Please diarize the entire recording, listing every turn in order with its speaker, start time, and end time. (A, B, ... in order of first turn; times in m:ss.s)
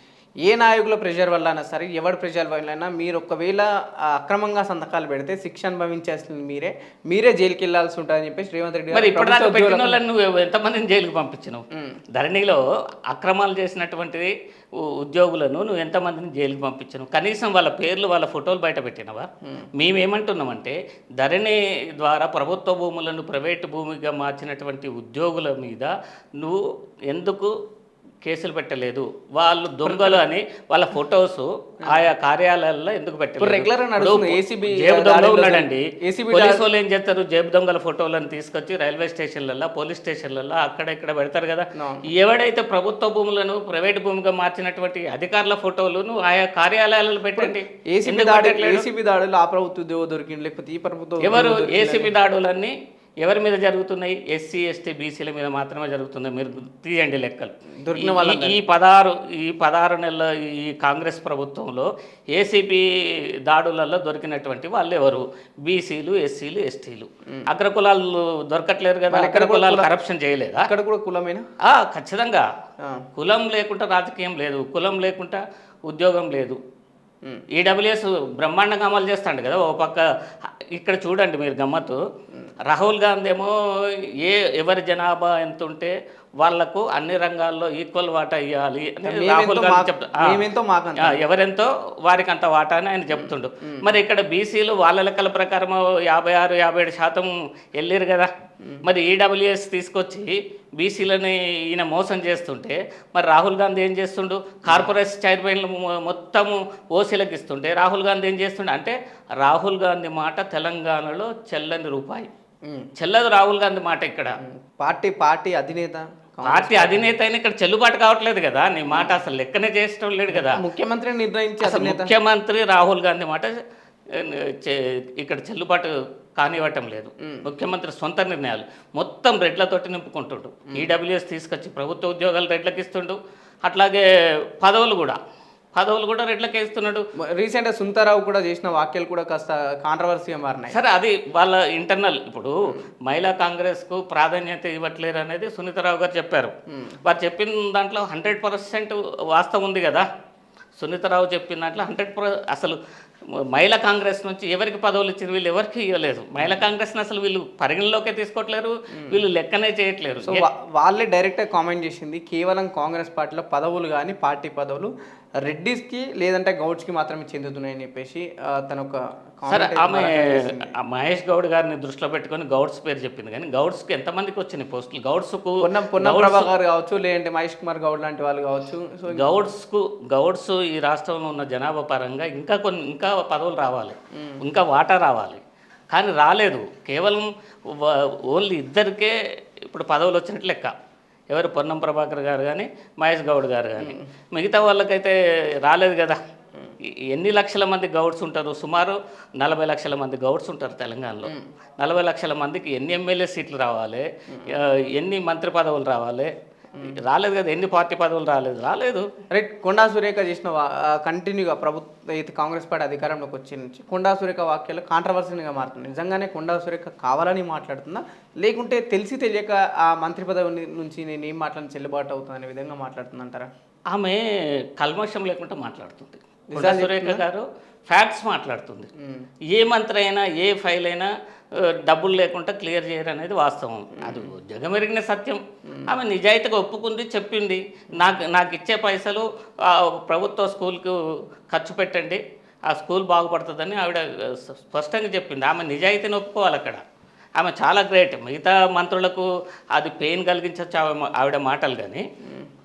0:00.4-0:10.0 A
0:08.9-0:27.6 B
0:11.7-0:12.0 A
0:28.2-0:48.8 B
0:29.8-0:30.2 A
0:33.4-0:36.7 A
0:41.7-0:42.1 A
0:47.3-0:52.1 A
0:51.2-1:10.7 B
0:57.7-0:58.6 A
1:09.1-1:09.9 A
1:10.6-1:11.4 A
1:11.6-1:12.5 B
1:12.8-1:13.1 A
1:13.2-1:16.6 B
1:17.5-1:22.0 B
1:22.6-1:30.4 B
1:29.0-1:31.2 A
1:31.0-1:38.3 B
1:33.1-1:33.9 A
1:38.8-1:52.3 B
1:44.6-1:44.9 A
1:52.6-1:52.9 A
1:53.0-1:54.4 B
1:54.4-1:57.1 A
1:56.4-2:00.6 B
2:00.3-2:02.1 A
2:01.6-2:15.2 B
2:07.2-2:07.5 A
2:15.7-2:17.1 B
2:17.2-2:20.8 A
2:20.7-2:30.0 B
2:26.7-2:27.0 A
2:30.8-2:32.8 B
2:33.3-2:40.4 B
2:38.9-2:39.2 A
2:40.2-2:50.7 A
2:49.5-2:56.5 B
2:55.6-2:59.4 A
2:59.1-3:10.7 B
3:04.1-3:04.4 A
3:11.3-3:16.2 B
3:13.8-3:14.1 A
3:16.8-3:29.1 B
3:24.3-3:24.6 A
3:29.3-3:43.5 A
3:43.9-3:48.9 B
3:46.5-3:47.2 A
3:49.0-3:49.3 A
3:49.5-4:06.8 B
3:53.9-3:54.3 A
3:55.7-3:55.9 A
4:07.4-4:12.0 B
4:12.2-4:12.5 A